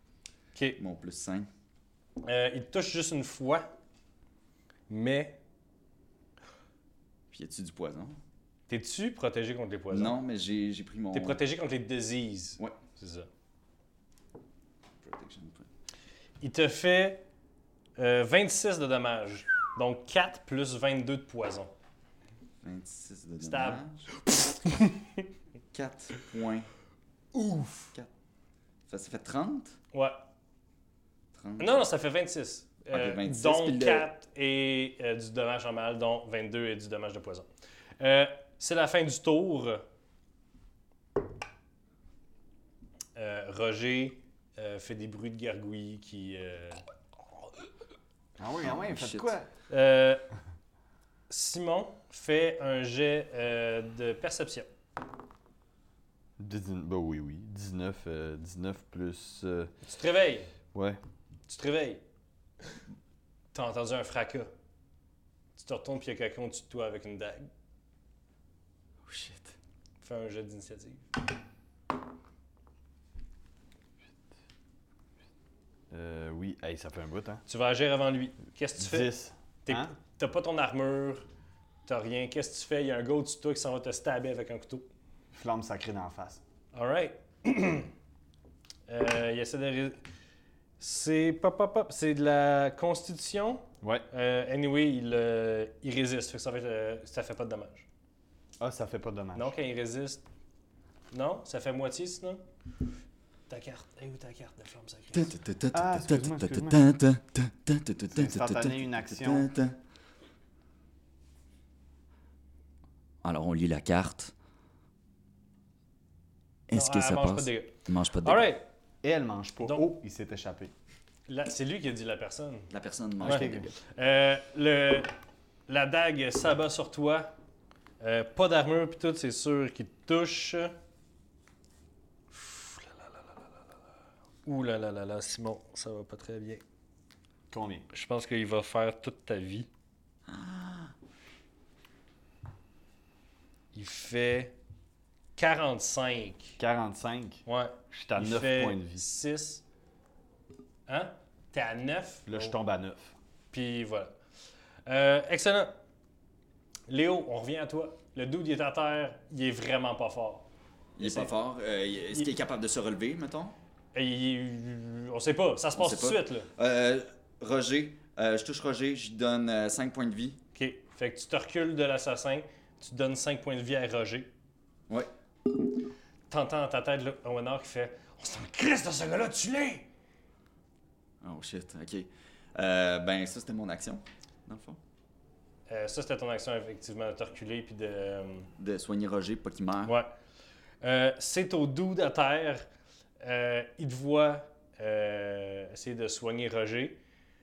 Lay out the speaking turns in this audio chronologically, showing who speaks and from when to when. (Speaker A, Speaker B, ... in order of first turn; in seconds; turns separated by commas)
Speaker A: 0.8-1.5, Speaker B: 2.2-3.7, Speaker B: 4.9-5.4, Speaker A: 7.3-8.2, Speaker B: 8.7-10.2, Speaker A: 9.9-11.4, Speaker B: 11.1-13.3, Speaker A: 15.0-15.7, Speaker B: 16.4-17.2, Speaker B: 18.0-21.7, Speaker A: 22.6-24.1, Speaker B: 23.4-25.2, Speaker A: 25.7-26.7, Speaker B: 27.3-27.9, Speaker A: 28.9-29.8, Speaker B: 29.9-30.2, Speaker A: 31.3-31.8, Speaker B: 31.6-37.5, Speaker A: 32.9-34.1, Speaker B: 38.0-39.8, Speaker B: 43.1-46.8, Speaker C: 48.4-49.5, Speaker A: 48.6-49.3, Speaker B: 49.7-50.2, Speaker B: 51.3-54.7, Speaker C: 56.4-59.7, Speaker B: 59.8-60.5, Speaker C: 60.7-61.0, Speaker B: 61.5-62.0, Speaker B: 63.5-64.5, Speaker B: 65.5-67.5, Speaker A: 69.1-69.5, Speaker B: 70.0-71.0, Speaker C: 75.9-77.4, Speaker B: 77.5-79.1, Speaker C: 78.8-79.9, Speaker B: 79.6-81.2, Speaker B: 81.8-84.8, Speaker C: 85.3-86.4, Speaker B: 86.7-87.9, Speaker B: 88.9-90.0, Speaker B: 90.8-97.9, Speaker C: 98.6-99.5, Speaker B: 99.3-100.2, Speaker B: 101.1-102.4, Speaker B: 103.5-105.3, Speaker A: 105.1-109.8, Speaker C: 105.7-106.8, Speaker C: 108.1-109.5, Speaker A: 113.2-114.3, Speaker A: 116.7-118.5, Speaker B: 116.7-118.6, Speaker C: 119.0-120.7, Speaker B: 121.3-125.1, Speaker A: 122.7-123.7, Speaker C: 123.2-123.7, Speaker B: 125.7-127.3, Speaker B: 128.0-130.7, Speaker B: 132.3-133.4, Speaker B: 134.4-136.6, Speaker C: 137.5-137.9, Speaker B: 137.9-139.7, Speaker A: 140.3-140.9, Speaker B: 143.7-144.6, Speaker B: 145.3-146.6, Speaker C: 146.6-149.0, Speaker B: 147.4-149.6, Speaker B: 150.9-152.5, Speaker C: 152.3-153.1, Speaker B: 153.5-154.1, Speaker B: 154.8-155.7, Speaker B: 156.9-160.5, Speaker A: 161.0-163.5, Speaker B: 161.0-161.3, Speaker B: 163.9-166.5, Speaker A: 165.7-170.4, Speaker B: 170.5-174.3, Speaker B: 176.3-179.9, Speaker A: 181.2-184.8, Speaker B: 185.7-188.5, Speaker A: 188.6-189.9, Speaker B: 189.8-190.1, Speaker B: 190.8-192.7, Speaker B: 193.2-197.0